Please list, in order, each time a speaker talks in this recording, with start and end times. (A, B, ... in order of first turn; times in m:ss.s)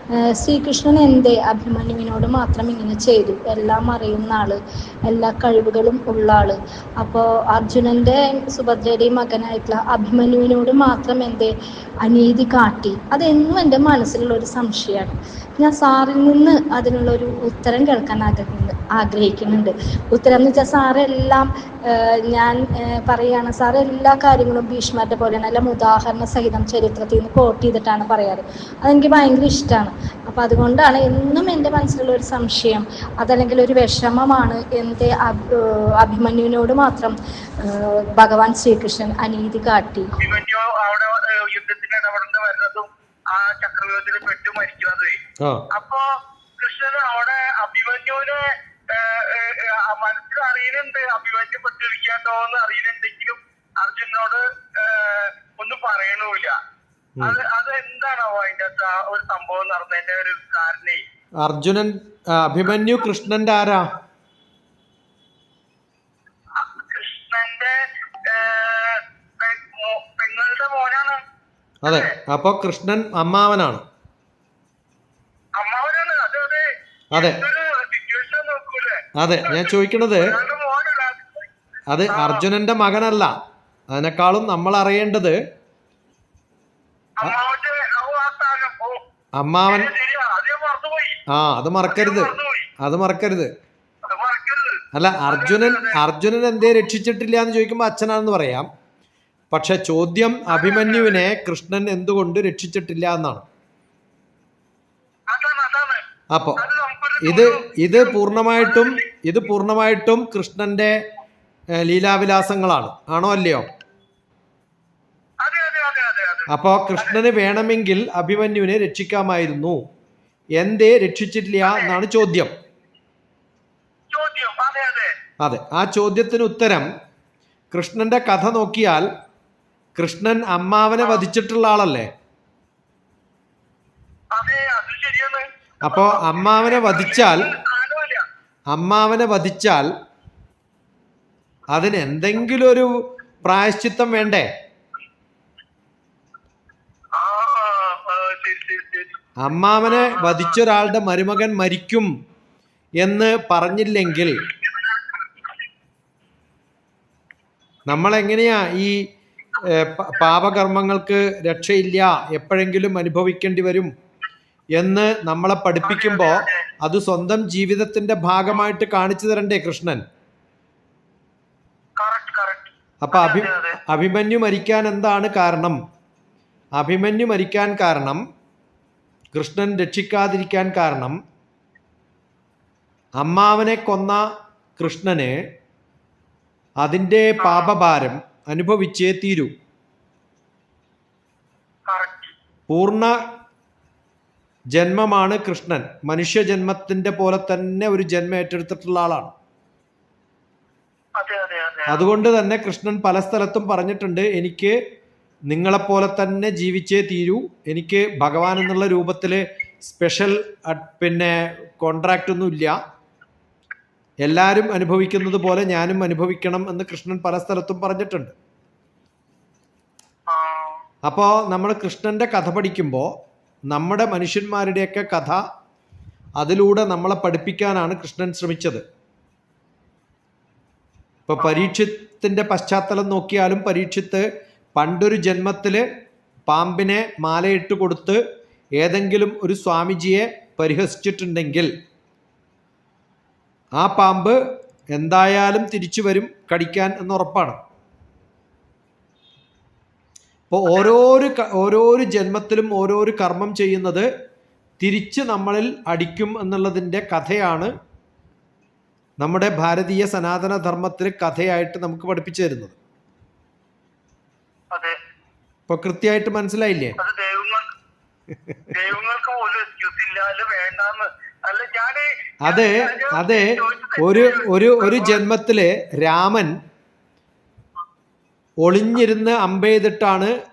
0:00.4-0:11.5 A
0:12.0-0:40.1 A
0:40.2-0:45.2 B
0:45.4-0:45.6 C
0:45.7-0:46.0 B
0:46.6-0:56.5 B
0:57.2-1:01.0 B
1:01.4-1:03.9 C
1:06.5-1:11.2 B
1:11.8-1:12.1 B
1:11.8-1:13.8 C
1:15.6-1:21.5 B
1:17.1-1:17.4 C
1:19.2-1:20.3 C
1:21.9-1:23.3 C
1:22.1-1:22.4 B
1:23.9-1:25.4 C
1:27.2-1:29.0 B
1:29.4-1:29.9 C
1:29.7-1:31.2 B
1:31.3-1:33.5 C
1:31.9-1:32.7 B
1:34.0-1:36.0 B
1:34.9-1:38.7 C
1:39.5-1:43.4 C
1:40.5-1:41.3 B
1:45.3-1:46.0 B
1:46.3-1:46.6 C
1:46.6-1:49.0 B
1:47.2-1:50.9 C
1:51.8-1:53.6 C
1:55.4-1:57.2 B
1:56.5-1:59.8 C
2:00.6-2:02.5 C
2:01.6-2:02.0 B
2:04.1-2:05.1 B
2:05.4-2:06.9 C
2:07.7-2:09.0 C
2:10.0-2:12.1 C
2:11.0-2:11.2 B
2:14.3-2:18.2 B
2:15.8-2:17.5 C
2:18.7-2:19.9 C
2:21.7-2:22.9 C
2:23.4-2:24.5 C
2:27.1-2:29.1 B
2:29.4-2:32.1 C
2:29.8-2:30.6 B
2:33.0-2:34.4 C
2:34.5-2:35.0 B
2:37.9-2:39.0 C
2:39.6-2:43.9 C
2:44.8-2:50.0 C
2:45.8-2:46.6 B
2:52.0-2:53.8 B
2:53.0-2:55.8 C
2:56.8-2:58.2 C
2:59.3-3:01.2 C
3:03.2-3:04.2 C
3:04.8-3:05.4 C
3:06.8-3:09.5 C
3:07.4-3:07.7 B
3:11.9-3:12.3 B
3:12.7-3:13.1 C
3:14.7-3:19.3 C
3:21.2-3:22.1 B
3:21.9-3:24.8 C
3:25.5-3:32.7 C
3:34.2-3:38.3 C
3:40.3-3:40.8 B
3:41.0-3:43.1 C
3:43.7-3:45.4 C
3:46.4-3:48.8 C
3:51.3-3:55.8 C
3:51.4-3:51.7 B
3:56.5-3:58.2 C
3:58.8-4:01.7 C
4:03.8-4:04.4 C
4:04.9-4:07.6 C
4:10.5-4:14.1 C
4:10.7-4:10.9 B
4:14.8-4:17.7 C
4:19.2-4:22.8 C
4:24.7-4:25.0 B
4:25.7-4:27.0 C
4:27.0-4:27.7 B
4:28.7-4:35.2 B
4:32.4-4:36.5 C
4:38.6-4:40.3 C